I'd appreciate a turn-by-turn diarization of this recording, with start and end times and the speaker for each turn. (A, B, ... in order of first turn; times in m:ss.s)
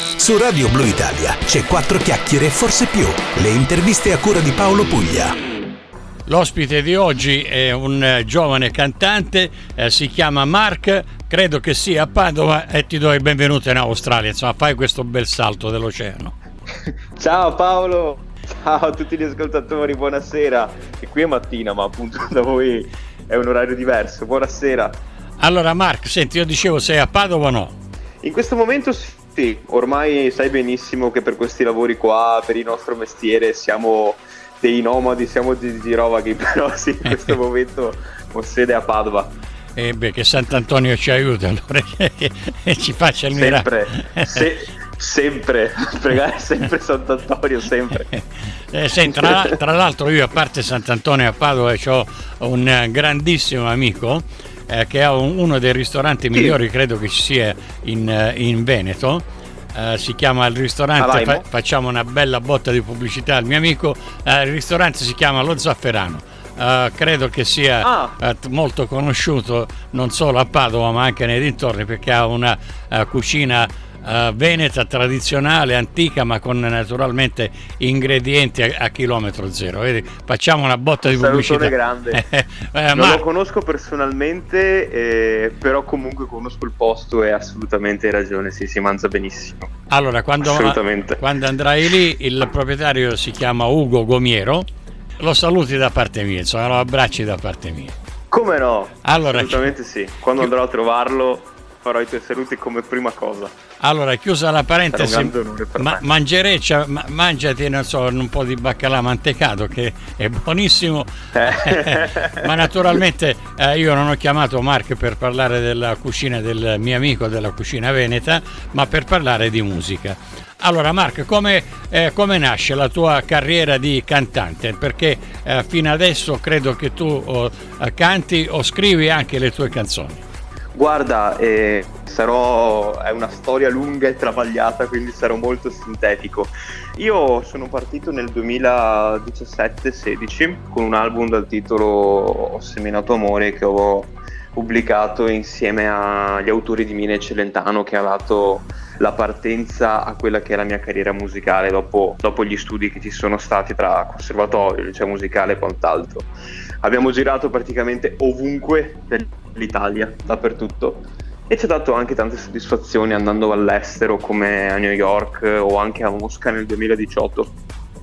0:00.2-0:05.4 A
0:06.2-0:16.3 B
0:17.2-0:25.0 C
0:25.4-0:27.7 B
0:28.2-0:39.3 C
0:39.8-0:44.5 B
0:43.3-0:48.1 C
0:48.1-1:23.2 B
0:49.1-0:49.6 C
1:01.0-1:01.4 C
1:07.8-1:08.1 C
1:21.0-1:22.2 C
1:22.9-1:29.7 C
1:29.9-1:38.0 B
1:30.4-1:31.2 C
1:38.3-1:43.5 C
1:39.0-1:39.7 B
1:43.8-2:10.2 B
1:44.9-1:46.1 C
1:51.3-1:52.5 C
2:10.7-2:36.3 C
2:36.8-2:47.5 C